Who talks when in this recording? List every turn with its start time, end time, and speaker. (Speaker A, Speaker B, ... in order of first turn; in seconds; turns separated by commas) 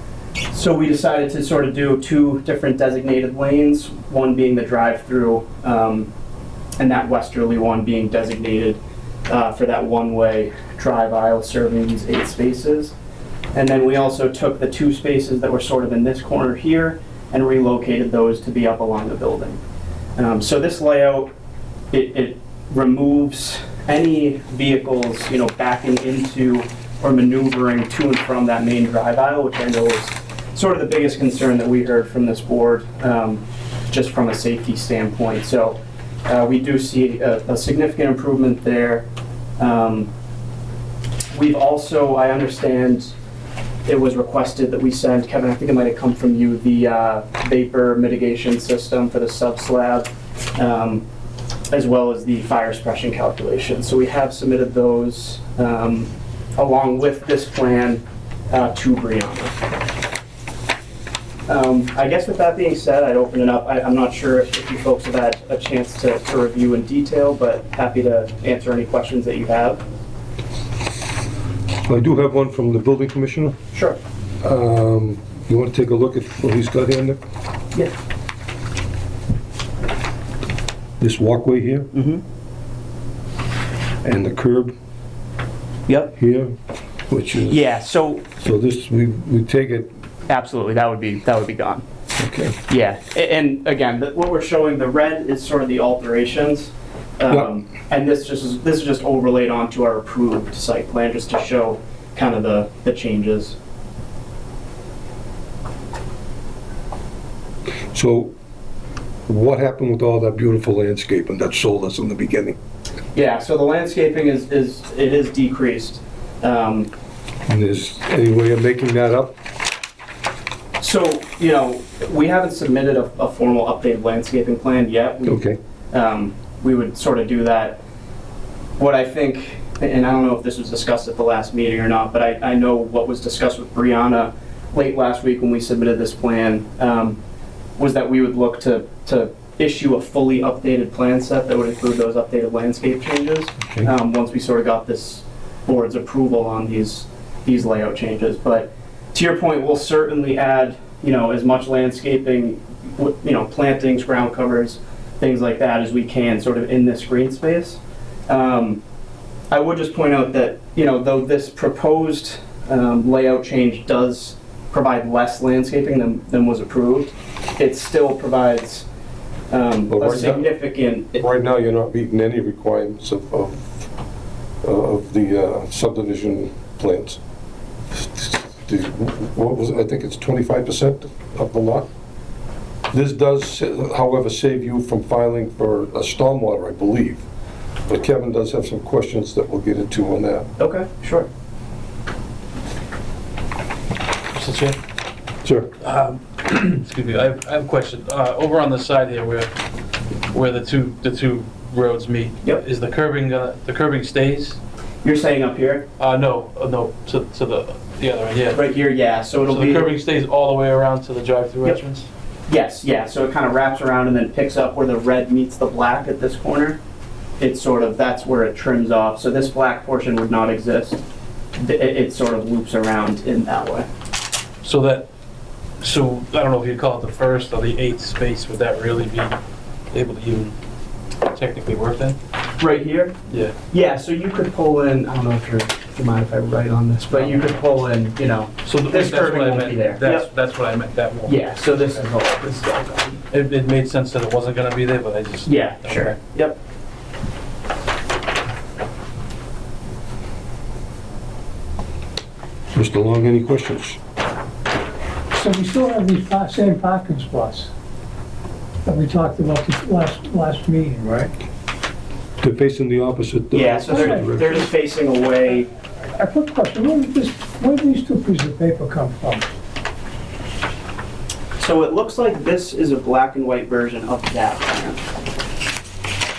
Speaker A: 0.5-6.1, Speaker A: 6.8-12.9, Speaker A: 13.5-19.6, Speaker A: 20.2-21.3, Speaker A: 21.9-39.1, Speaker A: 39.6-40.1, Speaker A: 41.3-43.1, Speaker A: 43.9-51.1, Speaker A: 51.7-59.6, Speaker A: 61.5-69.8, Speaker B: 71.9-73.6, Speaker A: 73.7-74.0, Speaker B: 74.4-77.2, Speaker B: 81.0-81.9, Speaker A: 81.9-82.2, Speaker B: 84.0-84.7, Speaker A: 85.9-86.1, Speaker B: 86.2-86.5, Speaker B: 87.1-87.6, Speaker A: 87.5-88.2, Speaker B: 88.4-89.9, Speaker A: 90.3-91.8, Speaker B: 92.2-92.6, Speaker A: 92.7-103.6, Speaker B: 107.9-108.3, Speaker B: 109.3-112.6, Speaker A: 113.1-116.9, Speaker B: 117.5-119.3, Speaker A: 120.8-127.8, Speaker B: 125.3-125.6, Speaker A: 128.8-137.2, Speaker A: 137.8-158.8, Speaker A: 159.5-168.9, Speaker A: 169.5-171.2, Speaker B: 169.9-170.5, Speaker B: 171.2-173.9, Speaker B: 174.6-177.2, Speaker B: 177.9-181.9, Speaker B: 182.9-187.2, Speaker B: 187.9-190.5, Speaker A: 190.6-191.3, Speaker C: 194.3-194.8, Speaker B: 195.4-195.7, Speaker C: 195.8-199.5, Speaker C: 200.3-204.6, Speaker A: 205.0-205.9, Speaker C: 206.0-208.6, Speaker A: 208.5-209.9, Speaker C: 209.5-212.1, Speaker A: 212.5-216.8, Speaker A: 217.4-221.0, Speaker A: 221.6-223.9, Speaker C: 224.6-225.1, Speaker C: 225.8-229.3, Speaker C: 229.9-230.6, Speaker C: 231.3-232.2, Speaker A: 232.6-233.2, Speaker C: 233.3-233.6, Speaker A: 233.7-240.3, Speaker C: 238.7-242.1, Speaker A: 241.3-243.2, Speaker C: 243.3-246.2, Speaker A: 245.5-246.6, Speaker B: 252.7-254.0, Speaker D: 255.3-257.7, Speaker D: 258.9-261.3, Speaker B: 262.4-264.6, Speaker A: 263.5-265.7, Speaker D: 263.9-264.6, Speaker D: 266.1-269.5, Speaker A: 271.6-275.1